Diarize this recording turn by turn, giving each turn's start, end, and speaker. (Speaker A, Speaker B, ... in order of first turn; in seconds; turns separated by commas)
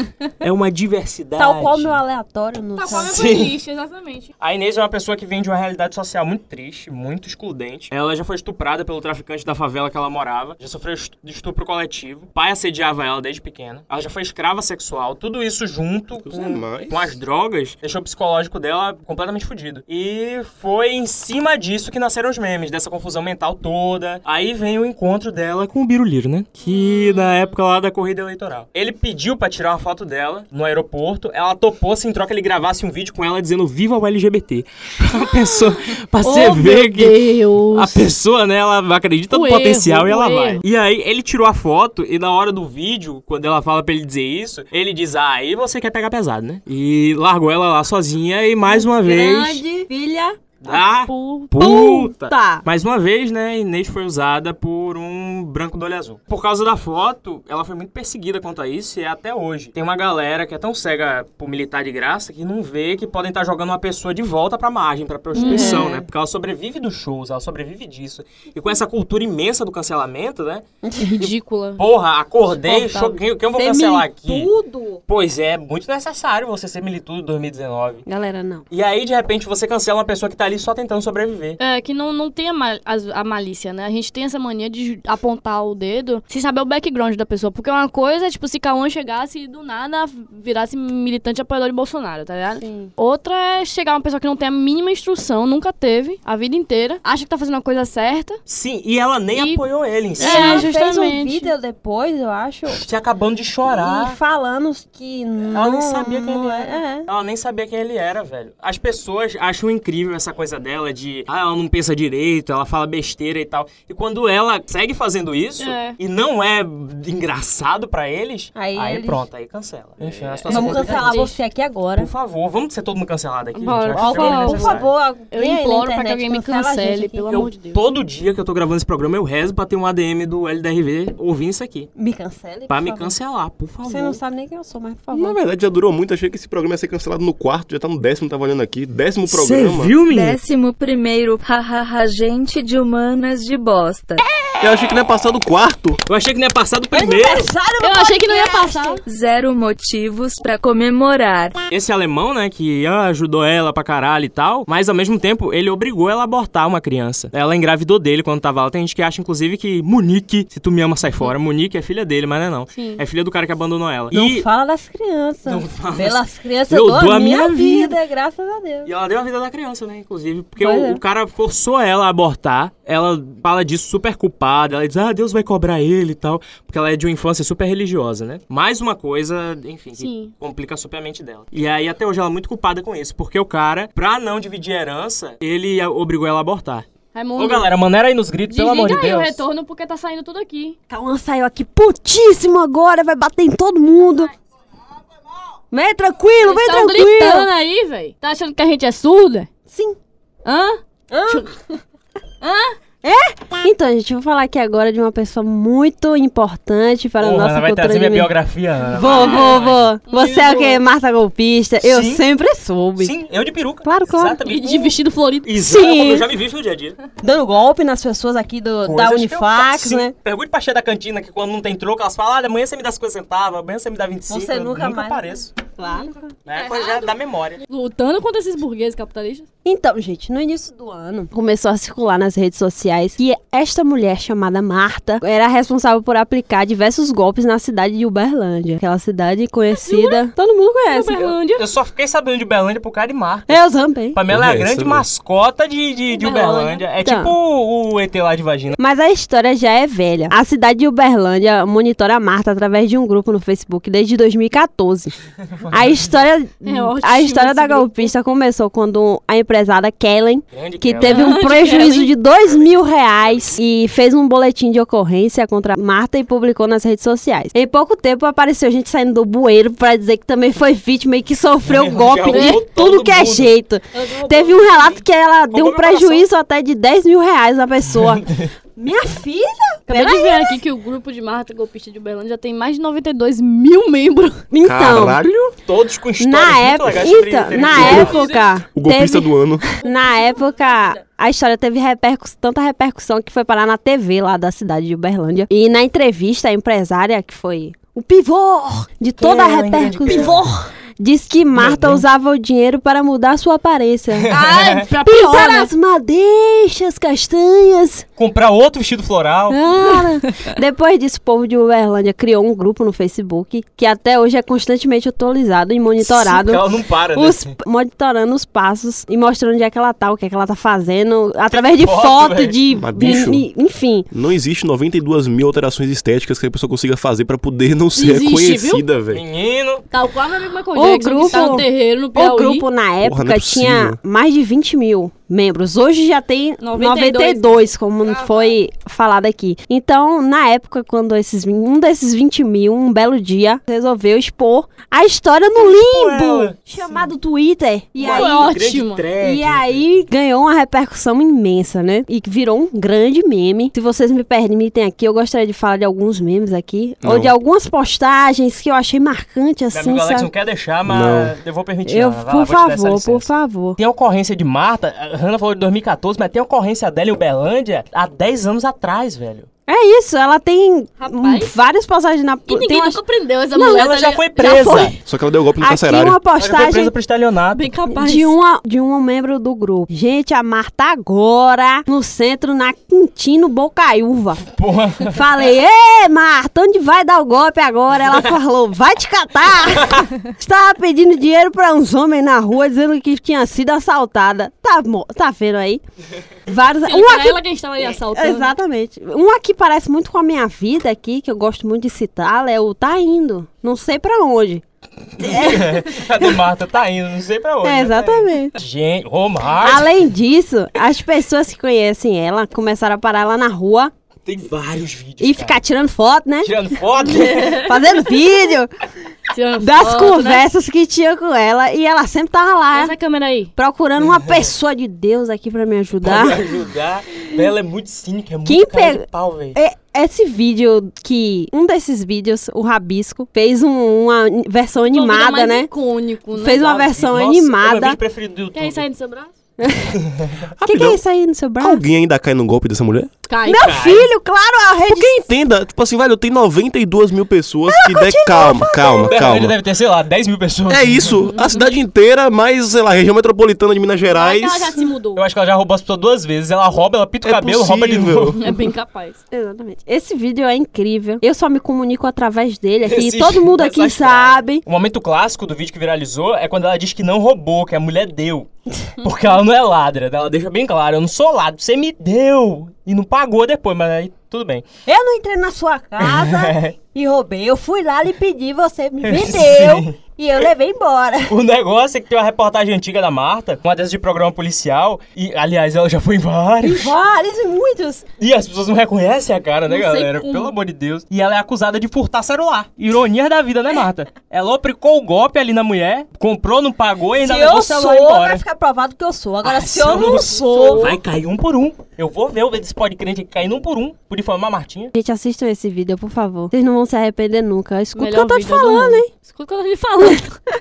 Speaker A: 0.4-2.0, Speaker B: 1.4-3.2, Speaker C: 2.8-4.3, Speaker A: 3.0-3.6, Speaker A: 4.4-49.6, Speaker D: 16.2-17.1, Speaker C: 26.6-27.5, Speaker C: 35.2-37.9, Speaker C: 39.3-40.6, Speaker B: 48.6-50.4, Speaker A: 50.6-70.6, Speaker C: 50.6-51.5, Speaker B: 51.6-52.6, Speaker C: 65.3-65.9, Speaker B: 65.4-66.0, Speaker B: 70.8-71.1, Speaker C: 71.0-71.8, Speaker A: 71.2-74.5, Speaker B: 72.6-75.0, Speaker A: 75.1-78.0, Speaker B: 78.1-78.6, Speaker A: 78.7-81.6, Speaker C: 81.6-98.4, Speaker B: 92.6-92.9, Speaker A: 98.5-100.7, Speaker C: 99.3-99.6, Speaker C: 100.2-101.5, Speaker B: 100.2-102.8, Speaker A: 102.7-104.2, Speaker B: 103.6-107.1, Speaker A: 105.5-121.3, Speaker C: 115.6-116.0, Speaker B: 118.5-119.2, Speaker C: 120.3-121.3, Speaker B: 120.5-122.1, Speaker A: 122.0-124.9, Speaker C: 123.6-127.8, Speaker B: 123.9-127.4, Speaker A: 127.3-131.9, Speaker B: 131.9-133.1, Speaker A: 132.7-134.2, Speaker B: 133.8-135.4, Speaker D: 135.1-139.9, Speaker A: 139.3-140.4, Speaker E: 140.1-144.2, Speaker D: 144.6-146.0, Speaker A: 146.1-147.5, Speaker B: 146.9-149.0, Speaker C: 147.8-149.0, Speaker E: 149.0-151.6, Speaker A: 151.7-164.5, Speaker C: 162.7-163.0, Speaker B: 164.1-168.9, Speaker A: 165.4-168.0, Speaker A: 168.8-189.4, Speaker B: 170.6-171.0, Speaker C: 180.0-180.3, Speaker C: 187.1-187.7, Speaker C: 188.5-190.8, Speaker B: 190.9-194.3, Speaker B: 195.7-197.5, Speaker C: 196.4-199.5, Speaker B: 199.7-200.0, Speaker C: 200.4-201.5, Speaker B: 201.1-201.6, Speaker C: 202.4-202.8, Speaker B: 203.0-208.3, Speaker A: 207.2-209.9, Speaker B: 208.9-213.1, Speaker C: 208.9-210.8, Speaker A: 211.8-212.2, Speaker A: 213.0-217.0, Speaker B: 213.8-214.4, Speaker C: 214.5-215.5, Speaker B: 215.6-216.3, Speaker B: 217.2-220.1, Speaker A: 218.8-225.5, Speaker B: 224.3-226.3, Speaker A: 226.5-227.6, Speaker C: 226.5-227.1, Speaker C: 227.7-229.5, Speaker B: 229.6-241.4, Speaker C: 239.7-240.2, Speaker C: 240.9-241.7, Speaker A: 241.5-248.8, Speaker B: 243.5-244.2, Speaker D: 244.3-245.1, Speaker B: 246.1-247.3, Speaker B: 248.8-255.1, Speaker A: 255.6-256.0, Speaker B: 255.7-280.6, Speaker C: 256.6-258.1, Speaker A: 260.5-263.5, Speaker C: 261.0-262.1, Speaker A: 271.6-273.5, Speaker C: 272.3-272.6, Speaker C: 273.9-275.0, Speaker A: 275.5-276.3, Speaker A: 277.9-278.5, Speaker C: 279.9-284.4, Speaker B: 284.5-285.2, Speaker D: 284.6-285.5, Speaker A: 285.7-288.2, Speaker B: 286.2-308.0, Speaker C: 287.6-288.5, Speaker D: 288.8-289.6, Speaker C: 289.8-290.9, Speaker A: 299.2-300.4, Speaker C: 300.0-300.4, Speaker A: 301.5-302.0, Speaker A: 304.2-304.9, Speaker C: 304.3-305.7, Speaker A: 308.2-309.6, Speaker B: 309.5-324.1, Speaker A: 316.0-317.6, Speaker A: 321.5-322.6, Speaker D: 322.7-323.4, Speaker D: 324.1-329.2, Speaker C: 327.9-328.8, Speaker A: 329.1-329.9, Speaker C: 329.9-332.6, Speaker B: 330.8-348.5, Speaker A: 331.2-331.5, Speaker D: 333.0-334.0, Speaker C: 336.6-338.6, Speaker A: 345.6-347.1, Speaker C: 348.0-349.1, Speaker A: 348.0-350.1, Speaker B: 349.2-360.3, Speaker D: 357.0-357.3, Speaker A: 359.7-369.5, Speaker D: 360.9-361.4, Speaker B: 361.9-363.8, Speaker B: 369.7-373.0, Speaker C: 371.0-371.5, Speaker C: 372.5-375.0, Speaker B: 373.5-373.9, Speaker A: 373.6-374.9, Speaker B: 374.4-374.9, Speaker D: 375.0-376.2, Speaker B: 375.6-376.9, Speaker A: 376.4-377.7, Speaker C: 377.5-378.4, Speaker B: 377.9-384.4, Speaker A: 384.5-385.2, Speaker B: 385.1-395.8, Speaker A: 389.7-390.1, Speaker B: 396.5-404.6, Speaker C: 396.9-398.5, Speaker B: 405.2-406.3, Speaker A: 405.2-410.0, Speaker B: 407.6-408.6, Speaker B: 409.6-413.9, Speaker A: 414.2-415.6, Speaker B: 415.2-416.5, Speaker A: 416.4-417.7, Speaker C: 417.1-417.8, Speaker B: 417.5-418.7, Speaker C: 419.3-420.4, Speaker B: 419.6-423.0, Speaker C: 422.7-423.5, Speaker B: 423.6-426.4, Speaker A: 424.0-424.5, Speaker A: 426.0-429.6, Speaker B: 428.4-435.7, Speaker C: 434.9-436.6, Speaker B: 436.3-438.0, Speaker A: 436.5-438.9, Speaker C: 438.5-439.3, Speaker B: 439.6-440.0, Speaker A: 439.9-440.5, Speaker D: 440.6-441.0, Speaker B: 440.6-441.8, Speaker D: 441.6-443.1, Speaker C: 443.3-443.7, Speaker B: 443.4-445.2, Speaker A: 443.5-444.1, Speaker D: 444.9-449.6, Speaker B: 447.7-449.2, Speaker A: 449.0-451.2, Speaker D: 450.7-454.8, Speaker C: 454.1-455.2, Speaker A: 455.1-458.4, Speaker D: 457.2-458.4, Speaker C: 458.4-459.2, Speaker B: 459.3-464.6, Speaker A: 462.8-468.5, Speaker A: 469.0-474.6, Speaker B: 474.9-481.4, Speaker A: 476.0-476.8, Speaker A: 479.0-480.0, Speaker A: 481.3-486.9, Speaker B: 486.6-488.0, Speaker A: 488.2-498.4, Speaker C: 489.7-490.5, Speaker B: 497.2-500.9, Speaker A: 499.4-504.9, Speaker C: 500.3-501.0, Speaker B: 504.9-509.1, Speaker C: 507.9-510.3